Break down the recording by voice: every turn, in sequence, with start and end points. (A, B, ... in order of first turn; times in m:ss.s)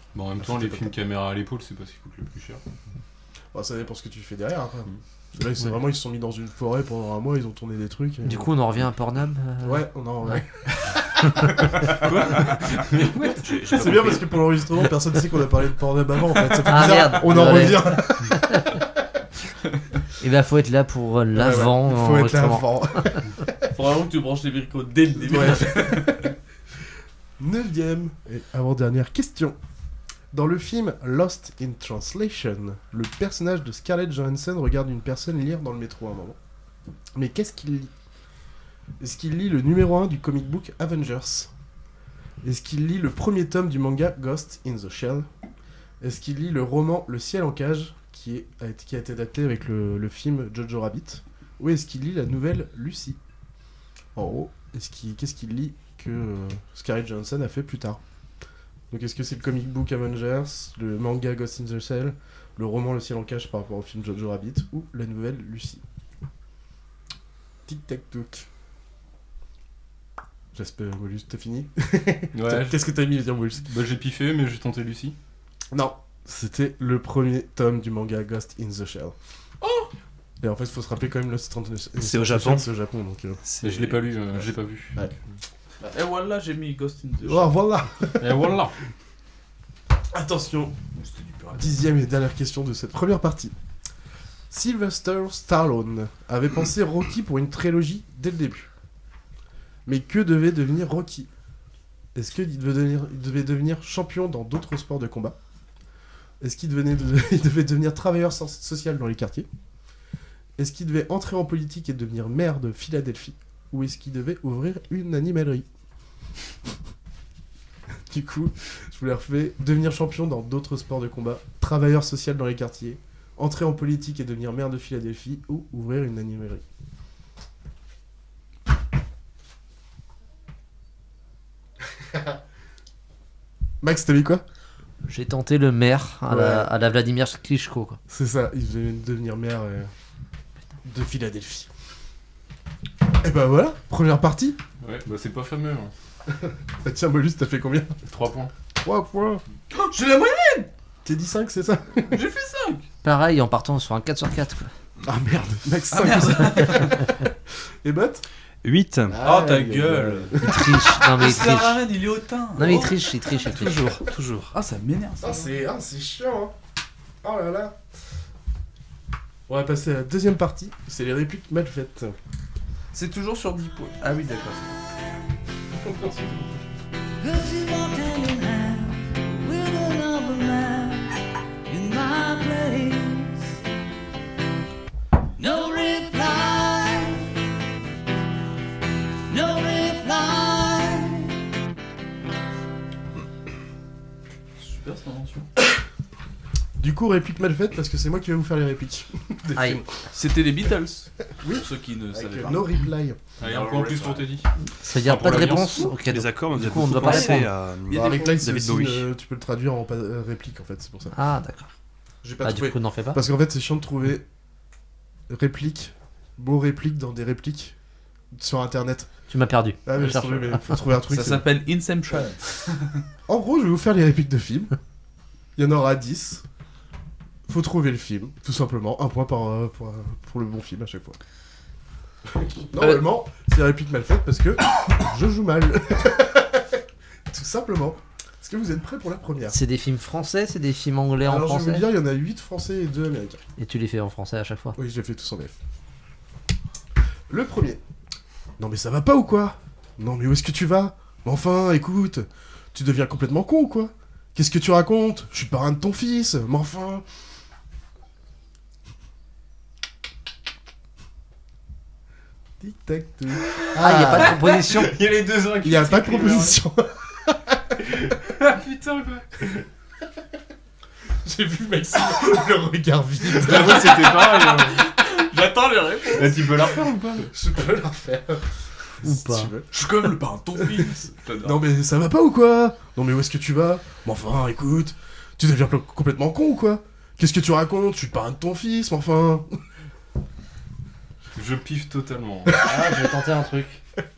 0:00.2-0:02.6 A
0:00.4-0:00.9 B
0:03.5-0:08.5 B
0:08.3-0:10.4 C
0:09.6-0:11.5 B
0:12.1-0:14.6 D
0:12.2-0:13.1 A
0:13.7-0:18.6 B
0:16.7-0:18.6 C
0:20.2-0:22.7 C
0:21.4-0:23.6 B
0:23.7-0:26.3 E
0:25.2-0:26.3 B
0:27.4-0:29.6 B
0:30.3-0:36.4 B
0:37.2-0:37.9 B
0:39.0-0:41.5 B
0:42.4-0:45.3 B
0:46.0-0:53.2 B
0:54.2-0:58.0 B
0:58.9-1:05.8 B
1:07.7-1:08.5 B
1:10.5-1:13.6 B
1:12.4-1:12.8 A
1:13.7-1:15.2 A
1:15.7-1:19.1 B
1:20.4-1:23.4 B
1:22.0-1:22.7 D
1:23.4-1:24.4 D
1:23.6-1:25.0 A
1:25.9-1:27.5 E
1:27.2-1:28.4 B
1:28.2-1:28.7 A
1:30.1-1:30.8 B
1:31.0-1:31.8 E
1:31.6-1:33.5 B
1:34.5-1:38.7 B
1:39.9-1:41.3 B
1:42.2-1:45.4 B
1:46.4-1:49.5 B
1:50.6-1:55.7 B
1:58.1-2:06.6 B
2:13.8-2:14.4 B
2:15.0-2:18.0 C
2:16.3-2:16.7 B
2:18.1-2:19.9 B
2:20.8-2:21.7 B
2:23.2-2:24.6 B
2:24.8-2:25.9 A
2:26.3-2:28.0 B
2:28.1-2:28.5 A
2:28.8-2:29.4 B
2:29.7-2:30.7 E
2:31.0-2:32.2 B
2:32.1-2:32.8 E
2:33.0-2:34.7 C
2:35.0-2:37.0 B
2:35.9-2:37.0 E
2:37.8-2:38.2 B
2:38.6-2:39.2 D
2:39.1-2:40.7 B
2:39.2-2:40.4 E
2:40.4-2:41.8 C
2:41.0-2:42.9 E
2:42.6-2:44.0 C
2:43.5-2:44.5 D
2:44.5-2:45.5 E
2:45.2-2:46.5 B
2:47.2-2:47.8 B
2:49.5-2:52.2 B
2:52.9-2:54.8 E
2:55.8-2:56.5 B
2:57.2-3:01.1 F
3:01.7-3:03.5 F
3:05.4-3:07.3 F
3:09.3-3:11.4 F
3:14.6-3:15.5 E
3:16.8-3:19.8 B
3:20.1-3:22.7 E
3:21.4-3:23.2 B
3:23.4-3:26.0 A
3:23.4-3:24.3 E
3:24.8-3:27.5 C
3:26.0-3:29.1 D
3:27.0-3:28.4 E
3:27.9-3:31.1 B
3:31.1-3:31.7 C
3:32.2-3:34.2 B
3:32.4-3:33.2 C
3:35.3-3:37.8 B
3:38.3-3:39.1 B
3:39.3-3:40.8 C
3:39.9-3:41.4 B
3:41.1-3:42.9 E
3:43.3-3:44.8 B
3:45.6-3:46.4 B
3:47.5-3:51.2 B
3:52.3-3:59.6 B
3:52.8-3:53.0 E
3:59.5-4:01.9 C
4:01.2-4:03.4 B
4:03.6-4:04.8 C
4:04.8-4:05.6 B
4:07.3-4:07.8 B
4:08.6-4:17.0 B
4:22.6-4:24.4 B
4:23.8-4:24.9 C
4:24.7-4:26.6 A
4:25.6-4:27.6 B
4:28.0-4:29.2 A
4:31.2-4:34.2 B
4:33.3-4:34.8 A
4:34.5-4:36.4 E
4:36.1-4:37.3 A
4:37.3-4:38.4 B
4:39.0-4:39.8 B
4:39.0-4:39.5 C
4:39.7-4:41.6 E
4:41.4-4:49.5 B
4:51.4-4:52.6 A
4:52.6-4:53.8 C